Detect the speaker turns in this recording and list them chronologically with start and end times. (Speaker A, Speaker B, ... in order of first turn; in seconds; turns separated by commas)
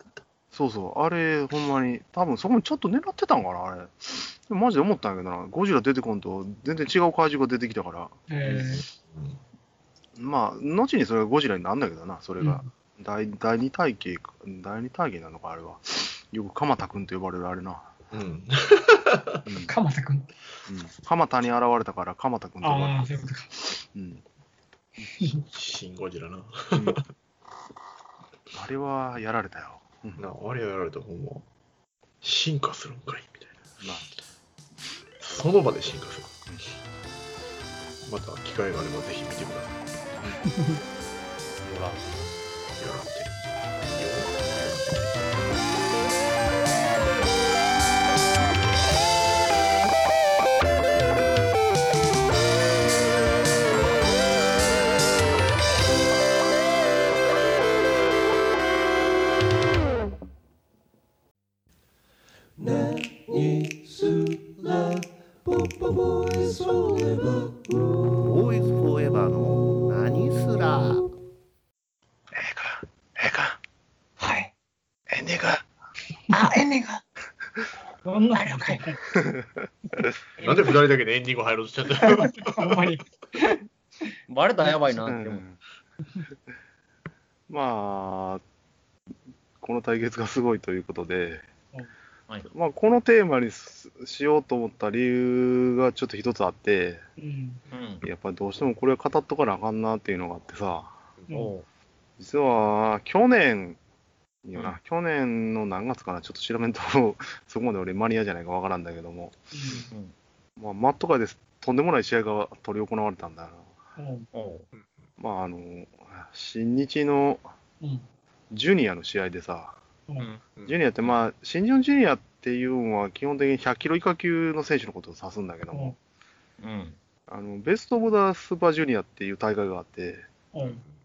Speaker A: 0.5-8.6, Speaker B: 8.3-8.8, Speaker C: 9.0-9.4, Speaker A: 10.2-18.0, Speaker B: 12.4-12.7, Speaker C: 18.1-19.4, Speaker A: 19.4-19.7, Speaker B: 19.7-20.3, Speaker A: 20.7-23.1, Speaker B: 22.6-23.5, Speaker A: 23.9-24.2, Speaker C: 25.4-27.0, Speaker A: 26.7-27.0, Speaker A: 28.5-30.3, Speaker C: 30.2-31.4, Speaker C: 32.2-33.6, Speaker A: 33.8-34.1, Speaker C: 35.2-36.4, Speaker C: 38.0-39.8, Speaker B: 40.5-40.8, Speaker C: 42.8-45.3, Speaker D: 62.6-68.2, Speaker E: 68.2-71.1, Speaker A: 72.3-73.6, Speaker F: 74.2-74.5, Speaker A: 75.1-75.6, Speaker F: 76.3-77.0, Speaker B: 78.0-79.0, Speaker F: 78.4-78.8, Speaker A: 79.1-80.0, Speaker C: 80.4-82.8, Speaker B: 82.0-83.6, Speaker F: 84.3-85.4, Speaker A: 84.9-85.6, Speaker A: 87.5-88.4, Speaker A: 89.6-91.4, Speaker A: 92.5-97.0, Speaker B: 97.2-97.6, Speaker F: 97.7-98.0, Speaker A: 98.0-101.0, Speaker F: 101.3-101.7, Speaker A: 102.2-103.8, Speaker A: 104.4-109.4, Speaker B: 109.5-109.9, Speaker A: 110.6-113.7, Speaker B: 114.0-114.3, Speaker F: 114.3-114.7, Speaker A: 115.2-117.5, Speaker B: 117.8-118.0, Speaker A: 118.5-119.8, Speaker A: 120.7-125.9, Speaker F: 126.6-127.0, Speaker A: 127.3-130.3, Speaker B: 130.5-130.8